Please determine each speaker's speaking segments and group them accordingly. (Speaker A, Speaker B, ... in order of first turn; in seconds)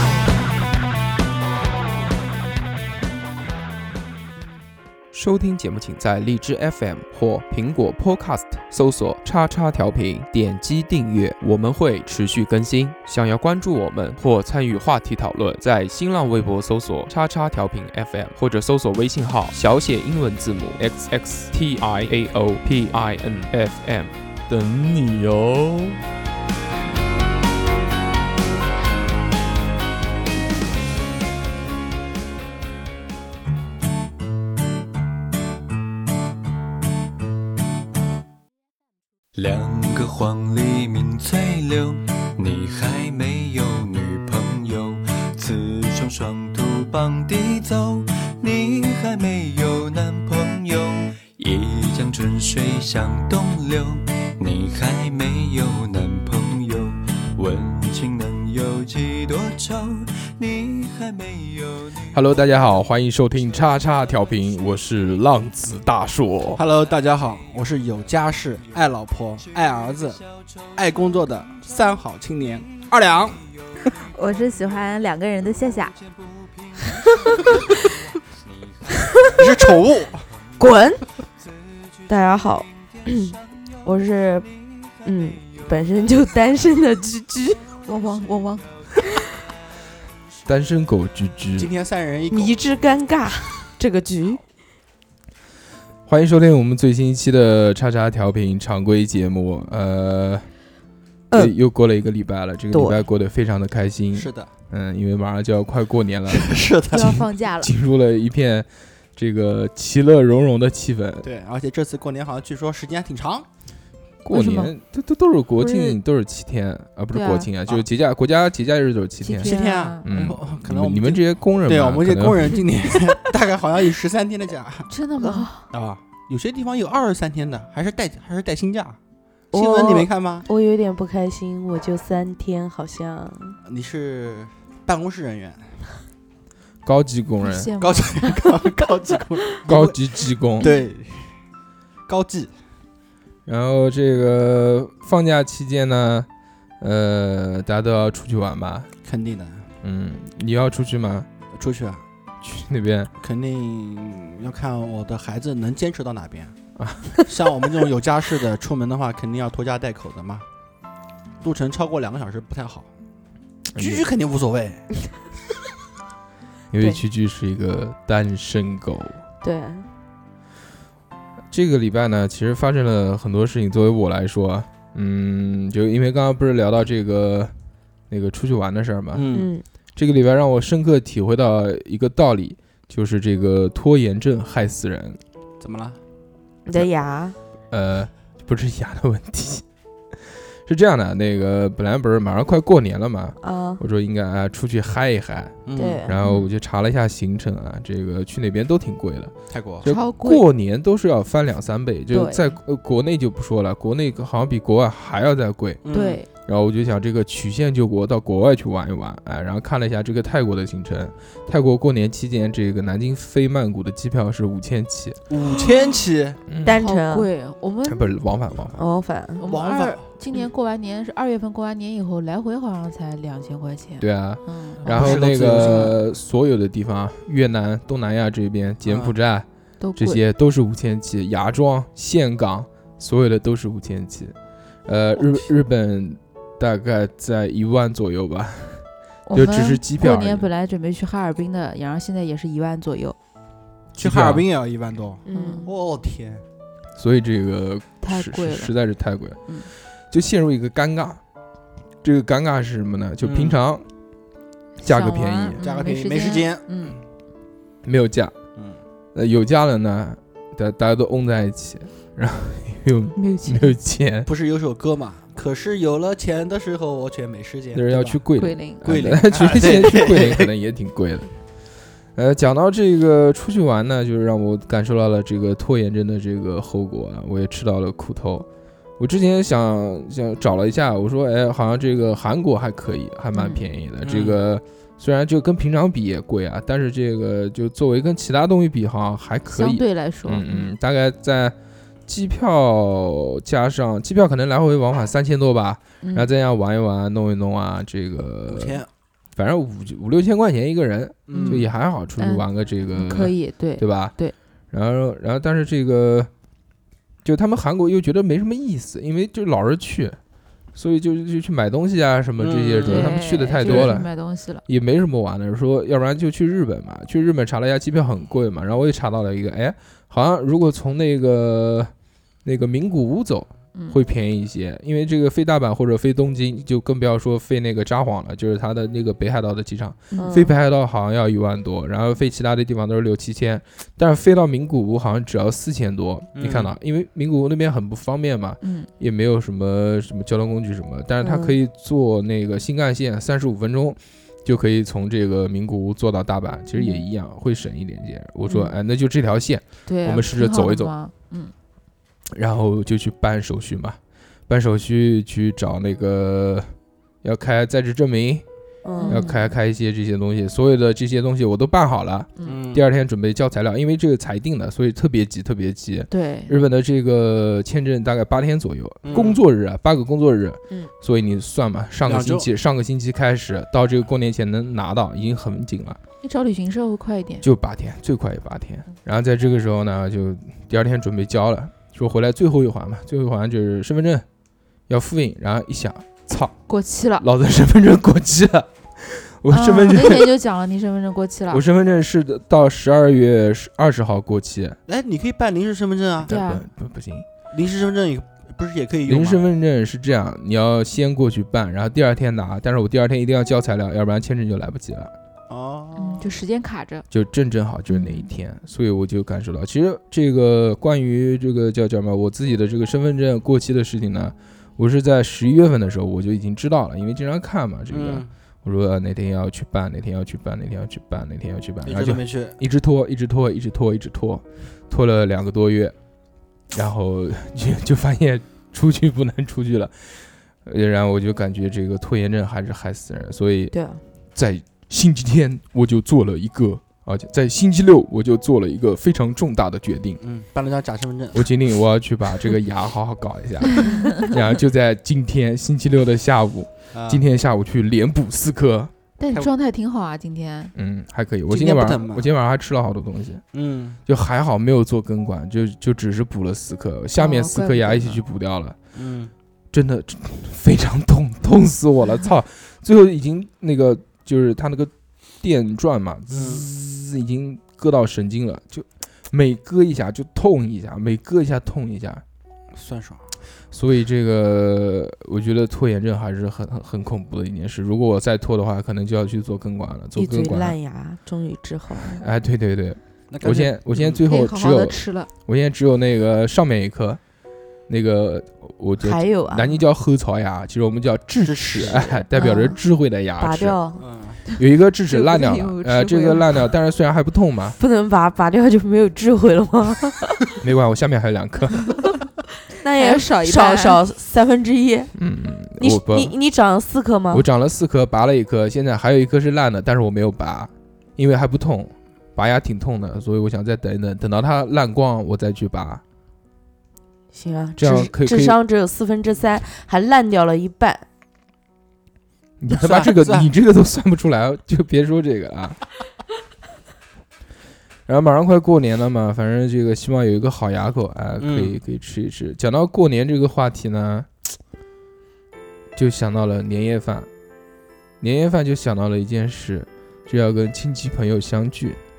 Speaker A: 5.1-26.0, 62.1-66.6, 90.5-91.7, 96.1-100.5, 101.3-111.3, 114.2-119.5, 120.0-122.6, 136.8-137.7, 139.7-140.7, 143.4-146.3, 146.8-148.9, 149.8-151.3, 152.4-153.1, 156.8-157.2, 163.7-164.0, 166.7-169.2, 171.5-177.5, 178.1-179.3, 179.9-185.2, 187.7-189.6, 190.1-205.8, 206.4-215.2, 216.5-216.8, 217.8-218.8, 224.0-234.3, 234.8-240.5, 243.9-244.4, 247.0-249.5, 250.1-251.2, 252.0-253.8, 254.8-255.6, 257.8-258.3, 259.1-264.3, 267.7-271.3, 272.1-278.5, 279.0-291.5, 292.1-298.8, 299.4-304.1, 304.7-306.3, 307.2-310.2, 310.7-314.1, 314.6-321.9, 322.4-350.9, 352.3-358.4, 359.0-376.0, 377.4-384.2, 384.9-386.6, 387.2-390.3, 391.5-394.8, 396.2-397.2, 399.1-405.1, 407.1-425.9, 426.7-433.8, 434.3-440.2, 441.3-448.9, 450.7-453.4, 454.1-458.8, 459.7-472.2, 473.7-480.8, 482.2-487.2, 487.9-493.8, 494.6-497.8, 500.6-501.9, 505.1-506.3, 507.3-516.0, 517.8-518.5, 522.6-525.8, 528.0-534.5, 536.0-537.3, 538.2-542.0
Speaker B: 39.3-62.2
Speaker C: 66.5-70.2, 70.7-73.4, 79.4-80.2, 91.6-92.5, 104.1-104.5, 106.3-107.1, 111.2-113.5, 119.4-124.9, 125.7-129.0, 129.5-130.5, 133.7-135.6, 137.8-141.3, 142.1-142.5, 149.0-149.6, 151.5-152.0, 153.2-156.5, 157.3-160.4, 161.4-162.9, 163.8-164.8, 179.1-179.5, 185.6-186.0, 195.7-196.1, 199.5-199.8, 205.8-206.2, 215.3-216.4, 219.4-220.0, 224.8-225.9, 228.8-229.1, 244.0-246.4, 253.2-253.6, 255.6-256.6, 264.2-268.2, 268.8-270.5, 284.0-284.4, 298.5-298.9, 301.3-301.7, 312.4-313.9, 336.3-336.7, 362.4-362.8, 369.0-369.4, 372.0-372.4, 394.9-396.3, 397.5-399.4, 405.5-406.3, 417.9-418.3, 421.8-422.6, 440.2-441.4, 446.9-447.2, 451.5-452.2, 453.5-454.0, 458.9-459.3, 466.3-466.6, 472.7-473.2, 483.3-484.2, 491.4-492.2, 494.0-494.4, 522.7-523.5, 531.4-531.8
Speaker D: 73.9-76.0, 87.8-88.7, 106.9-107.7, 117.1-117.5, 119.2-120.0, 124.9-125.7, 137.4-138.4, 196.2-196.5, 199.8-200.4, 202.1-202.6, 205.9-206.3, 216.7-218.1, 219.4-225.9, 229.8-230.2, 239.2-243.2, 245.3-245.7, 248.0-248.7, 254.8-257.0, 263.1-263.8, 268.4-268.8, 283.3-283.7, 289.5-290.7, 296.0-296.3, 301.3-301.7, 302.2-304.3, 312.8-314.6, 330.1-330.5, 338.6-338.9, 349.9-351.5, 359.0-359.5, 366.1-366.6, 376.2-377.4, 386.7-387.2, 389.5-391.6, 396.3-396.6, 405.9-407.0, 407.9-408.3, 449.2-450.7, 457.1-458.2, 484.2-485.3, 495.1-496.5, 502.9-504.0
Speaker E: 78.9-79.5, 80.6-81.0, 82.1-84.5, 85.0-87.6, 92.3-94.4, 102.7-103.0, 114.3-114.7, 115.6-116.0, 125.2-125.5, 129.5-133.6, 169.4-169.9, 179.3-179.6, 186.7-187.4, 193.4-193.8, 195.8-196.2, 216.6-217.3, 218.8-219.4, 245.2-245.7, 330.1-330.6, 341.2-341.6, 358.8-359.2, 433.7-434.0, 480.1-482.2, 489.0-489.8, 492.3-492.8, 493.4-494.0, 497.8-500.4, 502.8-505.1, 505.8-507.4, 517.3-521.0